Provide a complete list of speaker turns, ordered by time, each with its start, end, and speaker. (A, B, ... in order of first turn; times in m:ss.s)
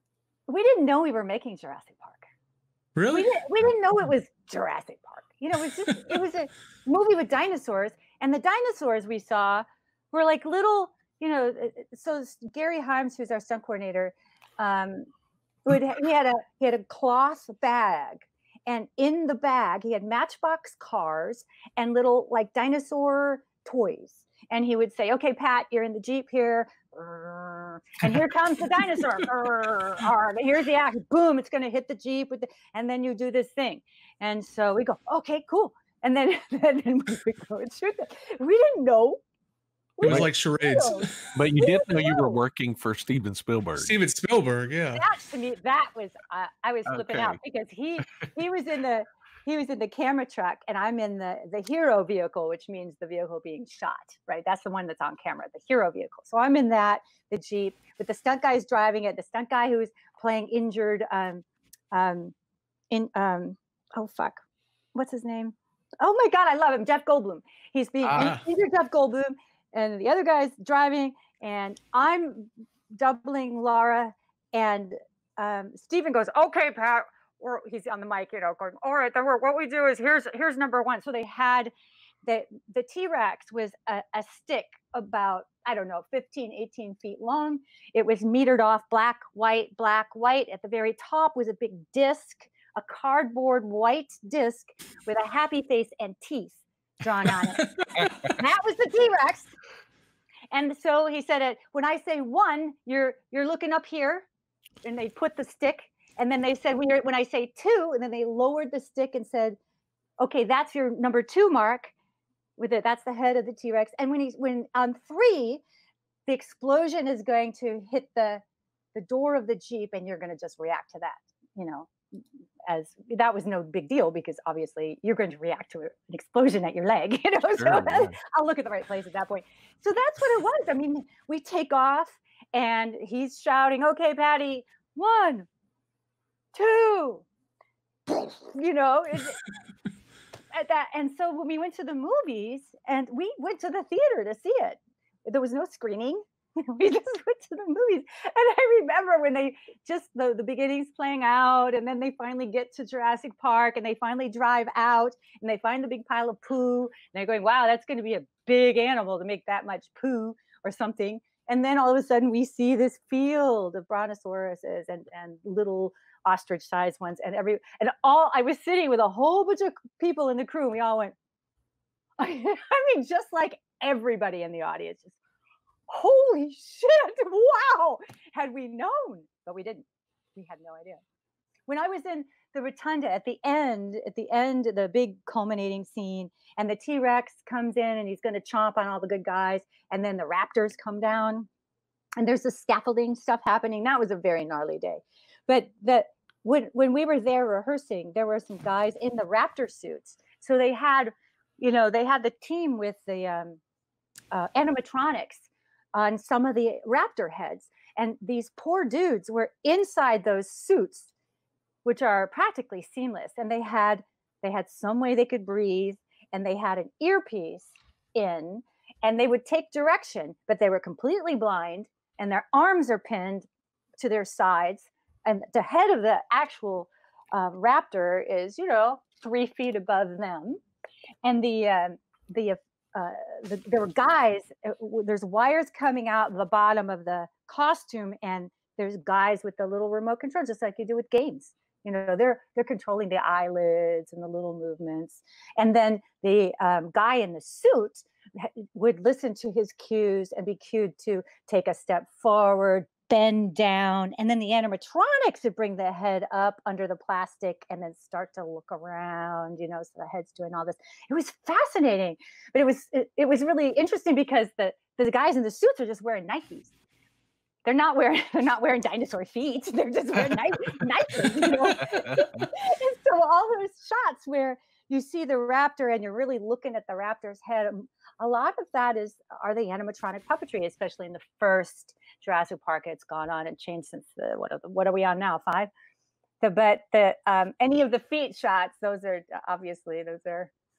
0:00.5-0:02.2 A
0:03.0-0:03.3 B
0:03.1-0:15.0 A
0:15.6-0:39.2 A
0:40.0-0:42.4 A
0:40.0-0:41.1 B
0:41.3-0:43.9 C
0:43.8-0:45.0 B
0:44.9-1:02.3 A
0:46.9-0:47.4 C
1:02.9-1:04.4 A
1:04.9-1:21.7 A
1:08.1-1:08.4 B
1:22.2-1:39.5 A
1:40.5-1:44.3 A
1:44.8-1:49.6 A
1:50.2-1:51.9 A
1:52.6-1:55.6 A
1:56.3-1:58.4 A
1:58.9-2:01.9 A
2:02.7-2:15.5 A
2:07.6-2:08.2 C
2:16.5-2:17.2 A
2:18.1-2:19.4 A
2:20.5-2:51.2 A
2:52.2-2:55.2 A
2:55.9-3:01.0 A
3:01.7-3:11.5 A
3:12.2-3:23.6 A
3:24.3-3:31.1 A
3:31.8-3:43.5 A
3:44.0-3:50.6 A
3:51.2-4:26.7 A
4:27.6-4:45.7 A
4:46.4-4:50.5 A